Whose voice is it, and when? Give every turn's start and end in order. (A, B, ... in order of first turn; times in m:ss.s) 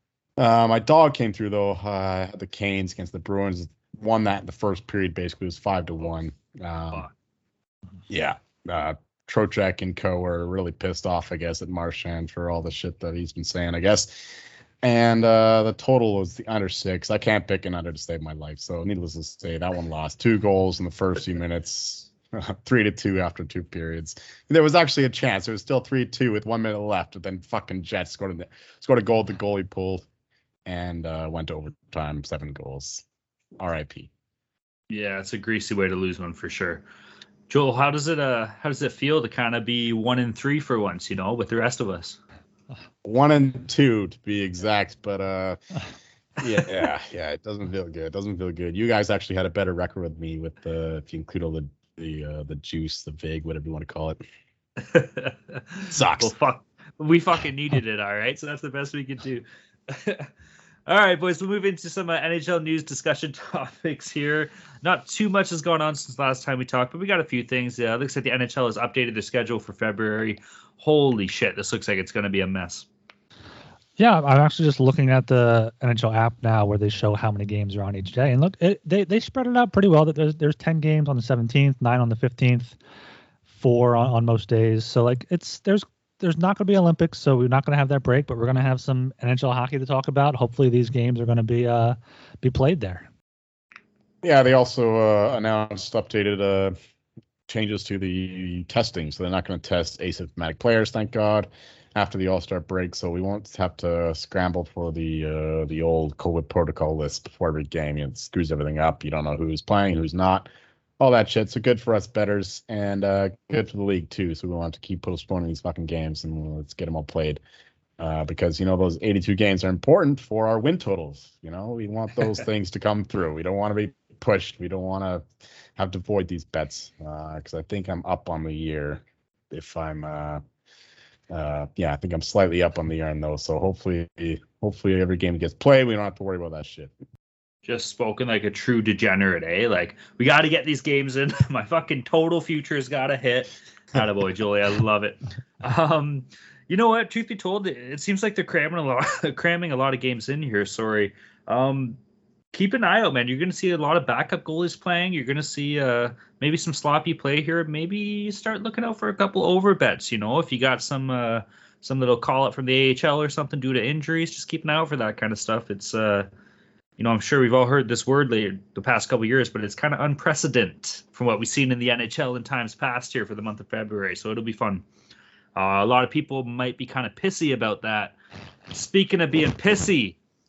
0:00.4-0:07.1 A
0:08.1-0:30.0 A
0:30.6-0:33.0 A
0:33.6-0:34.1 A
0:34.9-0:36.8 B
0:37.5-0:42.2 B
0:43.0-0:45.6 A
0:46.4-0:54.2 A
0:54.8-1:00.3 B
0:55.9-0:56.3 A
1:00.9-1:12.9 B
1:14.0-1:22.8 C
1:23.5-1:33.1 C
1:34.2-1:36.8 A
1:37.5-1:50.5 A
1:51.0-1:57.4 A
1:58.0-2:10.4 A
2:11.3-2:16.9 A
2:17.6-2:32.0 B
2:32.5-2:46.3 B
2:47.0-2:54.8 B
2:55.6-2:58.2 B
2:58.7-3:00.2 B